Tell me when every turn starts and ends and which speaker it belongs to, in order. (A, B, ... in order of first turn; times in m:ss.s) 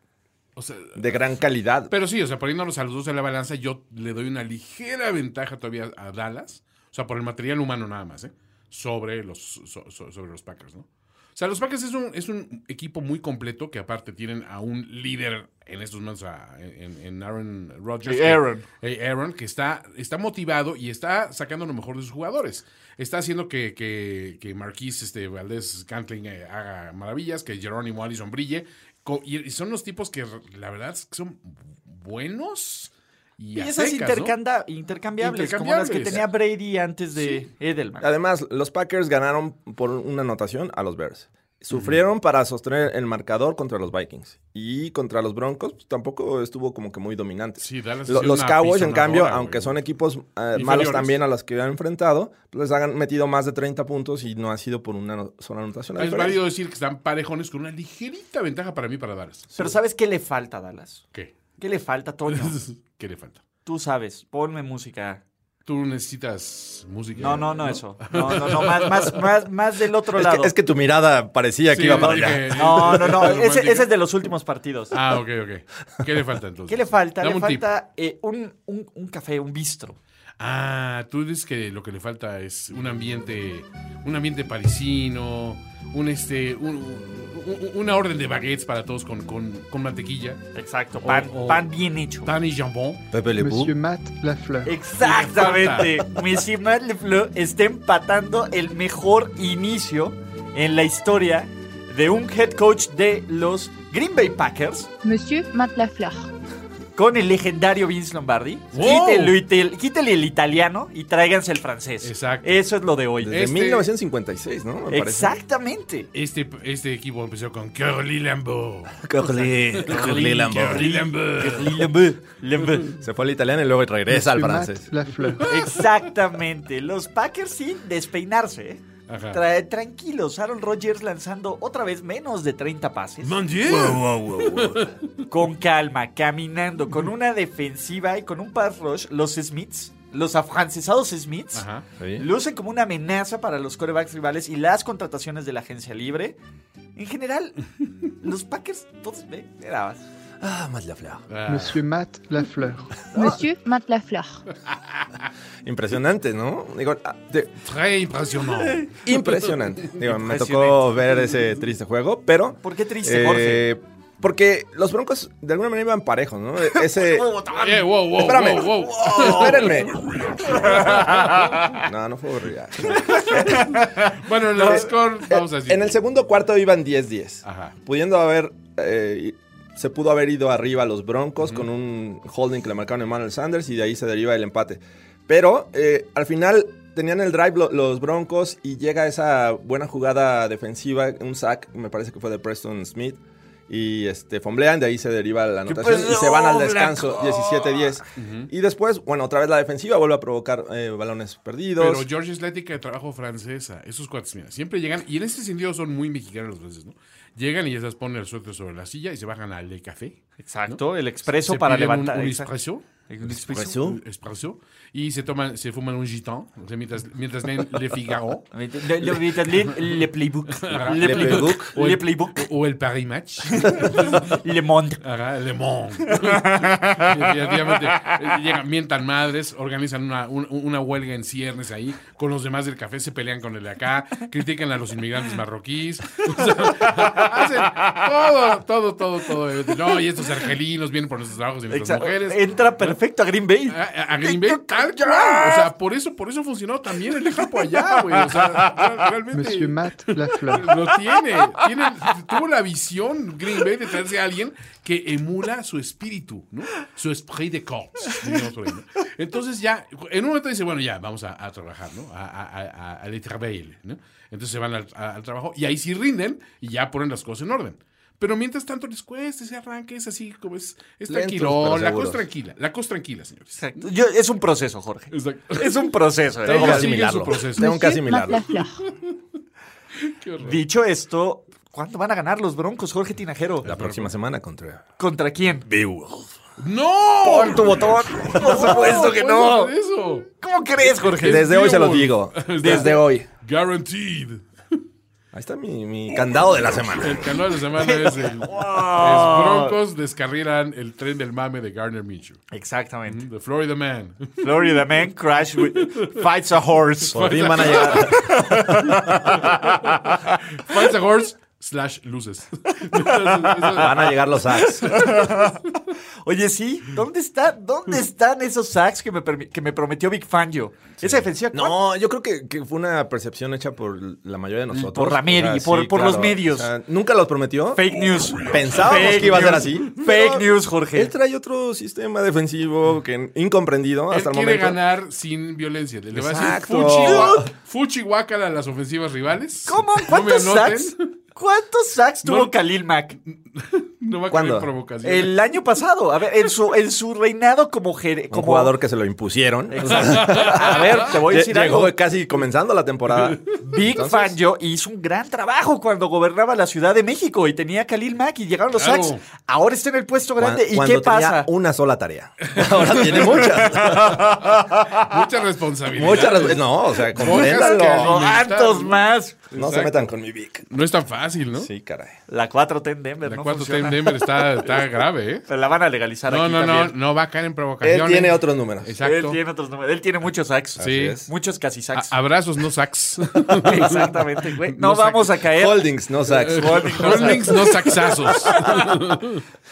0:00.6-0:01.1 A
0:01.0-0:01.9 B
0:01.9-0:34.4 A
0:18.0-0:18.6 C
0:33.6-0:38.1 C
0:35.2-0:36.2 A
0:38.0-0:56.4 B
0:41.7-0:42.0 A
0:47.6-0:49.8 A
0:50.5-0:51.2 A
0:56.0-0:59.7 A
0:59.6-1:01.0 C
1:01.6-1:02.6 C
1:02.3-1:03.4 A
1:03.7-1:05.2 C
1:05.7-1:09.2 A
1:07.2-1:10.5 C
1:10.2-1:13.1 B
1:11.7-1:13.9 A
1:12.0-1:15.0 C
1:14.9-1:17.6 A
1:16.7-1:20.0 C
1:20.4-1:30.4 A
1:30.6-1:32.3 C
1:31.0-1:31.6 A
1:32.2-1:33.0 A
1:33.1-1:33.8 B
1:33.4-1:34.8 D
1:34.6-1:44.9 C
1:35.0-1:36.0 A
1:45.0-1:46.3 E
1:47.0-1:53.4 C
1:48.7-1:49.4 A
1:52.0-1:52.6 A
1:53.2-1:55.4 B
1:53.3-1:53.9 A
1:54.9-1:56.1 C
1:56.1-2:01.8 A
1:59.0-2:01.0 B
1:59.9-2:03.0 C
2:03.0-2:04.9 B
2:04.1-2:05.5 D
2:05.3-2:05.9 A
2:05.5-2:13.4 C
2:09.1-2:09.4 A
2:13.2-2:15.3 A
2:13.6-2:14.8 B
2:15.3-2:21.7 C
2:21.5-2:21.8 A
2:22.0-2:22.3 B
2:22.2-2:26.4 C
2:27.0-2:27.6 C
2:28.2-2:30.0 C
2:30.4-2:31.2 B
2:31.3-2:31.8 A
2:31.5-2:33.4 D
2:33.1-2:34.4 E
2:35.6-2:37.5 B
2:37.6-2:38.9 A
2:38.5-2:39.0 C
2:39.0-2:47.3 B
2:40.0-2:40.8 A
2:42.6-2:43.7 C
2:46.7-2:49.8 C
2:47.6-2:49.7 A
2:48.1-2:50.0 B
2:50.4-2:51.7 C
2:50.6-2:51.6 A
2:51.7-2:53.7 B
2:52.9-2:56.0 A
2:53.2-2:54.1 C
2:54.6-3:22.1 B
2:57.4-2:57.8 A
3:15.7-3:18.0 C
3:18.2-3:18.5 A
3:21.8-3:38.5 A
3:30.4-3:32.5 C
3:33.1-3:33.8 C
3:33.5-3:34.0 B
3:38.5-3:42.5 C
3:39.0-3:40.0 A
3:40.6-3:44.4 A
3:40.9-3:41.7 B
3:43.5-3:45.0 C
3:45.0-4:03.0 A
3:46.1-3:48.1 C
3:56.4-3:58.3 C
3:59.7-4:00.4 C
4:01.7-4:05.7 C
4:03.7-4:33.8 A
4:07.3-4:08.9 C
4:09.3-4:10.7 D
4:31.1-4:32.2 B
4:33.6-4:37.0 C
4:35.1-4:38.0 A
4:36.5-4:38.5 B
4:37.6-4:38.8 E
4:38.5-4:39.2 A
4:40.0-4:40.6 A
4:40.4-4:43.7 C
4:43.6-4:44.8 B
4:43.6-4:44.1 A
4:45.0-4:45.7 C
4:45.7-4:46.3 B
4:46.6-4:50.3 A
4:47.2-4:49.7 C
4:50.4-4:51.5 C
4:50.8-4:54.4 A
4:51.2-4:53.3 B
4:52.6-4:53.0 C
4:55.3-4:57.4 B
4:57.0-5:02.4 A
4:57.8-4:59.8 C
5:02.5-5:03.2 C
5:03.1-5:04.8 A
5:04.4-5:10.1 C
5:05.8-5:06.1 A
5:07.1-5:08.2 A
5:07.1-5:08.9 B
5:08.9-5:14.1 A
5:12.9-5:21.8 C
5:13.8-5:15.2 B
5:14.9-5:15.3 A
5:21.5-5:27.8 B
5:24.7-5:26.7 C
5:27.7-5:31.1 C
5:28.5-5:34.8 B
5:34.1-5:41.0 A
5:36.1-5:37.5 B
5:36.9-5:37.5 C
5:39.7-5:43.2 C
5:42.2-5:42.5 A
5:43.3-5:45.3 A
5:44.3-5:44.7 B
5:45.0-5:48.8 C
5:48.3-5:54.4 B
5:49.7-5:51.9 C
5:49.9-5:51.1 A
5:53.1-5:53.6 A
5:53.6-6:01.5 C
5:58.8-5:59.2 A
6:00.4-6:04.6 B
6:02.5-6:09.0 A
6:03.6-6:04.2 C
6:05.9-6:08.3 B
6:07.2-6:09.4 C
6:09.5-6:10.1 A
6:09.5-6:10.7 B
6:10.7-6:11.7 A
6:11.5-6:12.2 B
6:12.3-6:14.8 C
6:13.2-6:15.5 A
6:15.5-6:17.0 C
6:16.3-6:19.4 A
6:17.8-6:18.9 B
6:19.0-6:22.2 C
6:20.8-6:21.3 B
6:20.8-6:21.2 A
6:21.9-6:25.4 A
6:23.5-6:29.0 C
6:25.5-6:27.6 B
6:26.4-6:29.4 A